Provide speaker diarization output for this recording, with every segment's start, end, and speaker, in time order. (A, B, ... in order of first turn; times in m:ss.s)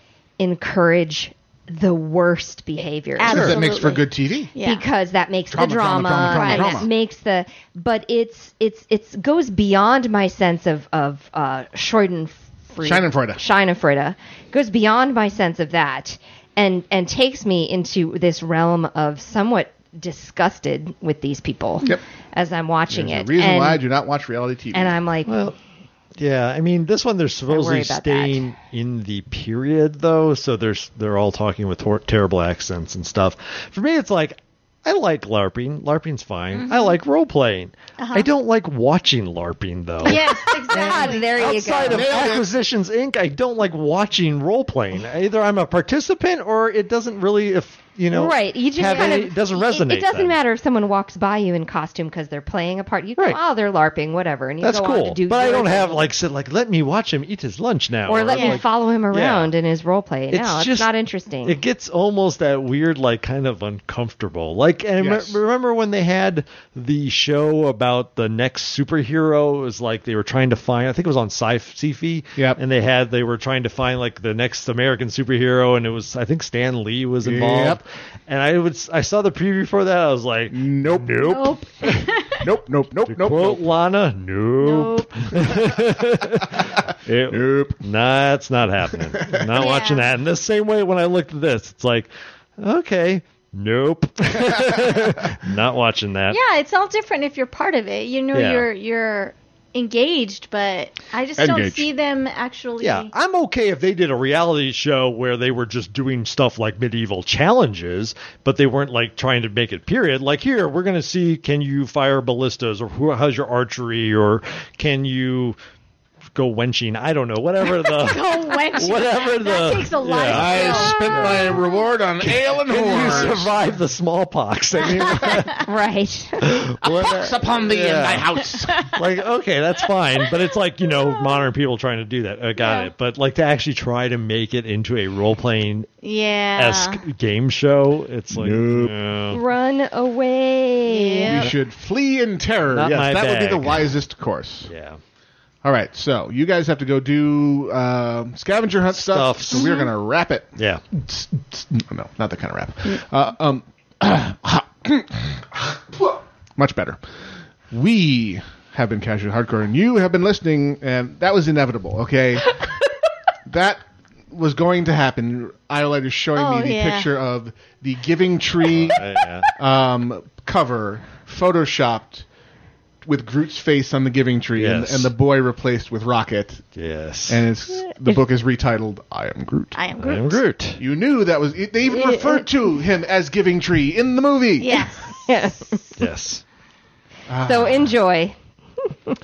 0:00.4-0:03.4 A
0:03.2-0:04.8 B
0:03.3-0:04.5 C
0:03.3-0:03.6 D
0:04.6-0:23.8 A
0:05.5-0:06.9 C
0:06.3-0:06.8 B
0:12.8-0:13.4 C
0:22.9-0:25.0 C
0:24.7-0:25.3 A
0:25.2-0:25.6 D
0:26.2-0:50.4 D
0:27.5-0:28.4 A
0:36.5-0:37.0 B
0:38.0-0:38.3 B
0:40.0-0:41.6 B
0:40.7-0:42.3 A
0:41.8-0:42.5 C
0:48.1-0:56.1 A
0:48.9-0:49.2 B
0:54.6-0:59.5 D
0:58.0-1:01.6 A
0:58.3-0:58.6 B
1:00.3-1:00.9 D
1:01.4-1:22.1 D
1:05.0-1:05.4 C
1:17.2-1:17.8 C
1:20.5-1:21.3 C
1:21.2-1:22.4 B
1:22.4-1:23.7 C
1:23.1-1:36.4 D
1:24.6-1:25.3 B
1:27.2-1:27.8 C
1:29.0-1:29.4 C
1:29.5-1:30.1 B
1:36.3-1:43.1 B
1:38.3-1:38.6 D
1:41.4-1:41.9 C
1:42.8-1:55.6 D
1:56.3-2:01.6 D
1:57.8-2:01.4 B
2:00.2-2:03.5 C
2:02.3-2:05.6 D
2:02.9-2:03.3 B
2:04.8-2:05.5 C
2:05.6-2:06.4 A
2:06.4-2:15.9 D
2:06.8-2:08.9 C
2:12.6-2:12.9 B
2:16.0-2:17.0 B
2:16.6-2:19.4 D
2:18.3-2:18.9 C
2:19.3-2:21.4 A
2:20.9-2:21.5 B
2:21.3-2:24.7 C
2:22.7-2:23.9 D
2:24.6-2:25.0 D
2:25.6-2:37.0 C
2:28.9-2:29.7 D
2:29.5-2:29.8 B
2:30.6-2:30.8 D
2:37.7-2:42.6 C
2:43.4-2:52.3 C
2:46.4-2:47.1 B
2:48.7-2:49.5 D
2:53.0-2:56.6 C
2:54.6-2:55.1 D
2:56.7-2:57.5 D
2:57.3-2:59.8 C
2:59.7-3:00.4 B
3:00.0-3:00.8 D
3:00.8-3:05.0 C
3:04.6-3:05.3 B
3:05.2-3:06.0 A
3:06.0-3:06.4 D
3:07.3-3:08.0 C
3:07.4-3:08.3 A